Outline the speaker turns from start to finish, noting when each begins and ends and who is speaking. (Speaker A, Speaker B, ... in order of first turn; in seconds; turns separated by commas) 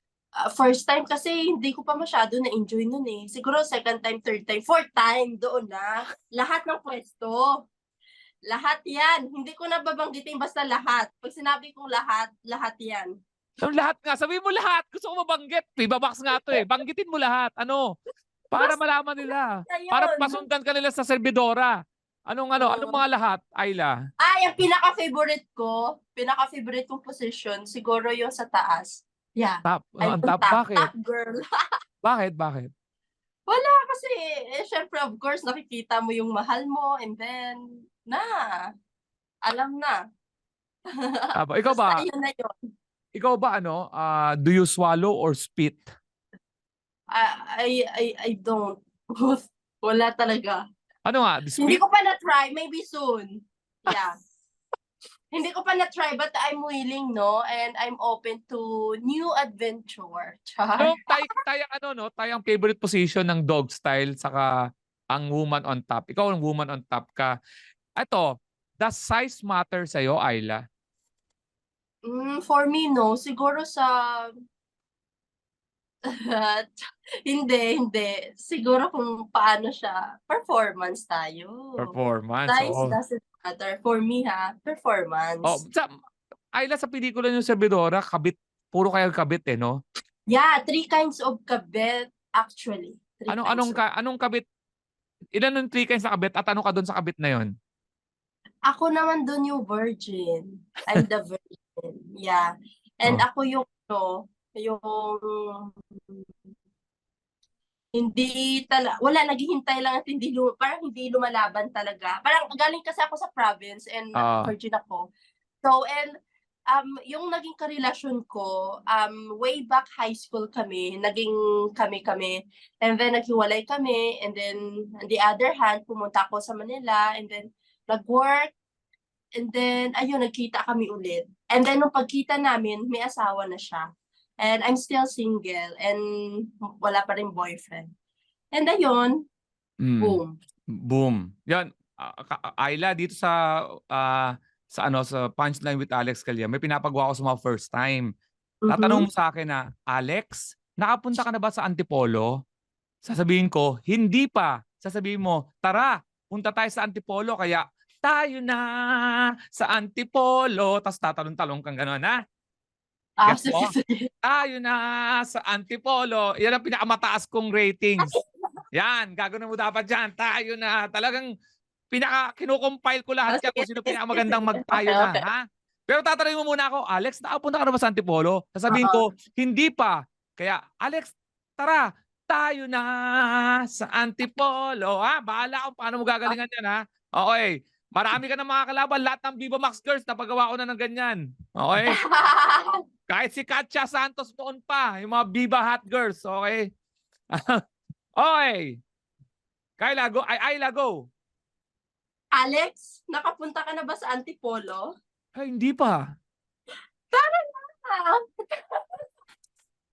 Speaker A: 0.5-7.5, Speaker A: 8.5-13.1, Speaker B: 13.6-17.9, Speaker A: 16.3-16.6, Speaker B: 18.5-21.8, Speaker A: 19.7-20.4, Speaker B: 22.3-23.9, Speaker A: 22.6-23.0, Speaker A: 24.2-31.4, Speaker B: 29.7-30.9, Speaker B: 32.0-32.7, Speaker A: 33.5-38.7, Speaker A: 39.5-40.0, Speaker A: 41.1-42.6, Speaker B: 41.4-42.0, Speaker B: 43.1-45.9, Speaker A: 47.1-50.6, Speaker B: 51.1-51.8, Speaker A: 51.6-53.3, Speaker A: 53.9-54.2, Speaker A: 55.3-61.3, Speaker B: 60.8-64.5, Speaker B: 65.1-67.3, Speaker B: 68.0-68.3, Speaker B: 68.8-70.6, Speaker A: 72.0-74.3, Speaker A: 76.3-76.7, Speaker A: 77.3-81.9, Speaker B: 81.8-82.9, Speaker A: 82.5-85.6, Speaker B: 85.4-85.9, Speaker B: 86.5-89.8, Speaker A: 90.3-93.8, Speaker B: 93.3-94.4, Speaker B: 95.4-97.5, Speaker A: 98.7-102.5, Speaker A: 103.0-106.3, Speaker A: 107.9-115.0, Speaker B: 114.2-114.5, Speaker A: 115.6-116.1, Speaker A: 116.7-128.5, Speaker A: 129.4-133.8, Speaker A: 134.4-137.9, Speaker A: 138.5-139.1, Speaker B: 139.8-140.2, Speaker A: 140.0-140.3, Speaker B: 140.8-143.3, Speaker B: 143.9-148.1, Speaker A: 148.6-149.1, Speaker B: 148.7-152.3, Speaker B: 153.0-162.2, Speaker A: 163.2-164.1, Speaker B: 163.3-163.7, Speaker B: 164.2-168.1, Speaker B: 168.8-171.3, Speaker B: 171.9-192.0, Speaker A: 173.3-175.2, Speaker A: 178.7-179.0, Speaker A: 191.9-192.8, Speaker B: 193.1-196.7, Speaker B: 197.3-197.6, Speaker B: 198.2-198.8, Speaker B: 199.8-201.1, Speaker A: 202.3-204.9, Speaker B: 205.3-206.0, Speaker A: 207.1-209.0